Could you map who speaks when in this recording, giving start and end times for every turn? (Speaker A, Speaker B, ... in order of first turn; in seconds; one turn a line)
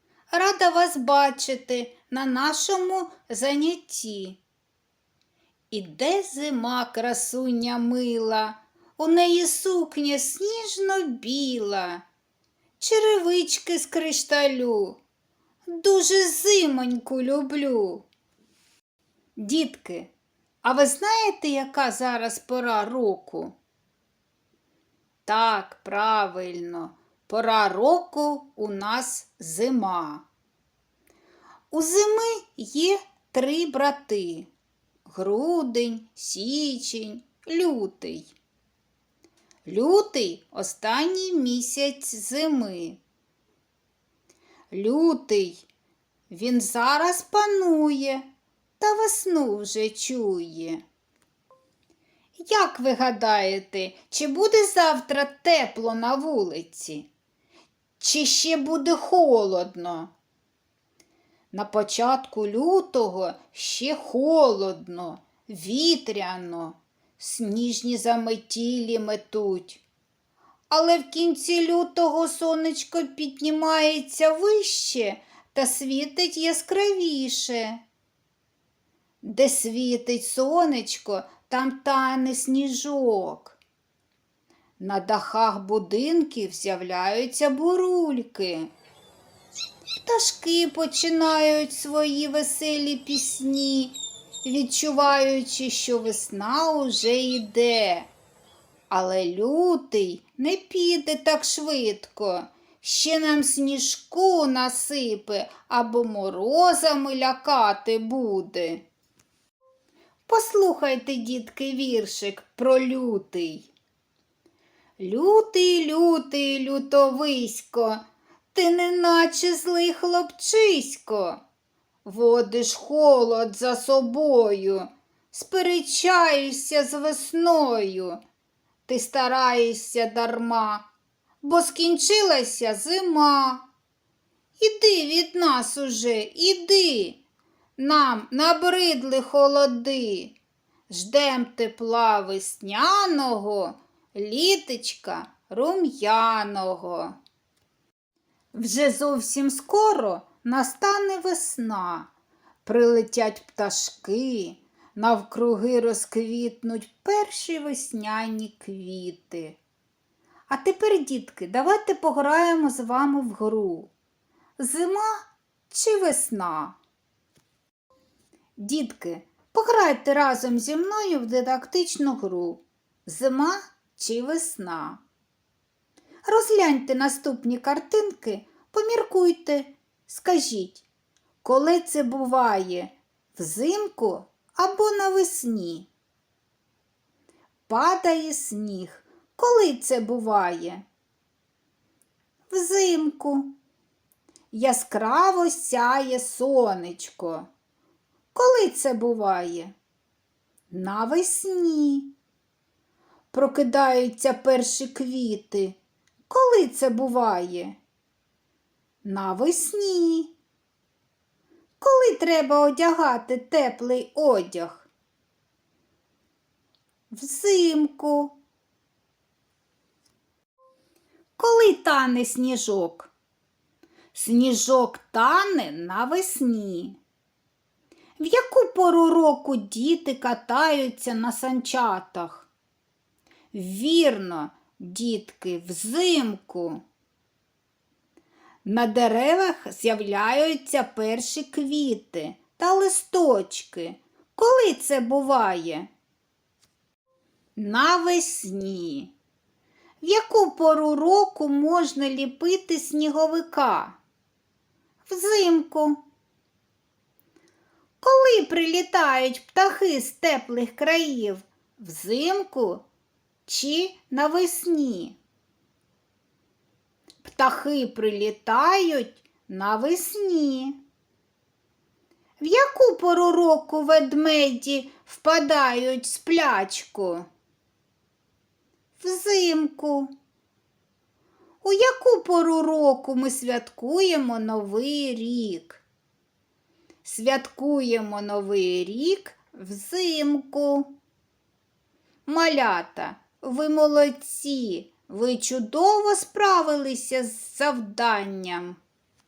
Speaker A: 0.3-4.4
Speaker A: 5.7-12.0
Speaker A: 12.8-15.0
Speaker A: 15.7-18.1
Speaker A: 19.4-20.1
Speaker A: 20.6-23.5
Speaker A: 25.2-30.2
Speaker A: 31.7-34.5
Speaker A: 35.0-38.3
Speaker A: 39.6-43.0
Speaker A: 44.7-45.6
Speaker A: 46.3-48.2
Speaker A: 48.8-50.8
Speaker A: 52.4-57.1
Speaker A: 58.0-60.1
Speaker A: 61.5-69.8
Speaker A: 70.7-77.8
Speaker A: 79.2-83.6
Speaker A: 84.8-88.7
Speaker A: 90.0-98.1
Speaker A: 98.9-108.8
Speaker A: 110.3-113.7
Speaker A: 115.0-121.4
Speaker A: 122.0-128.2
Speaker A: 128.9-130.9
Speaker A: 131.4-133.6
Speaker A: 134.6-137.2
Speaker A: 137.8-140.3
Speaker A: 140.9-147.1
Speaker A: 148.5-152.1
Speaker A: 152.6-159.6
Speaker A: 160.5-163.9
Speaker A: 164.6-166.8
Speaker A: 168.6-175.0
Speaker A: 176.2-180.8
Speaker A: 181.4-185.9
Speaker A: 187.7-190.8
Speaker A: 192.5-193.5
Speaker A: 194.5-197.5
Speaker A: 198.3-199.7
Speaker A: 200.7-202.1
Speaker A: 203.3-205.8
Speaker A: 206.3-207.8
Speaker A: 209.0-210.3
Speaker A: 211.8-214.9
Speaker A: 217.1-218.4
Speaker A: 221.4-223.1
Speaker A: 224.1-227.0
Speaker A: 228.2-232.5
Speaker A: 233.5-236.8
Speaker A: 238.6-245.9
Speaker A: 247.6-249.1
Speaker A: 250.0-254.0
Speaker A: 255.1-256.0
Speaker A: 258.0-262.8
Speaker A: 263.4-265.2
Speaker A: 267.2-270.8
Speaker A: 272.4-277.2
Speaker A: 279.0-280.1
Speaker A: 281.6-285.8
Speaker A: 287.0-290.9
Speaker A: 292.2-298.8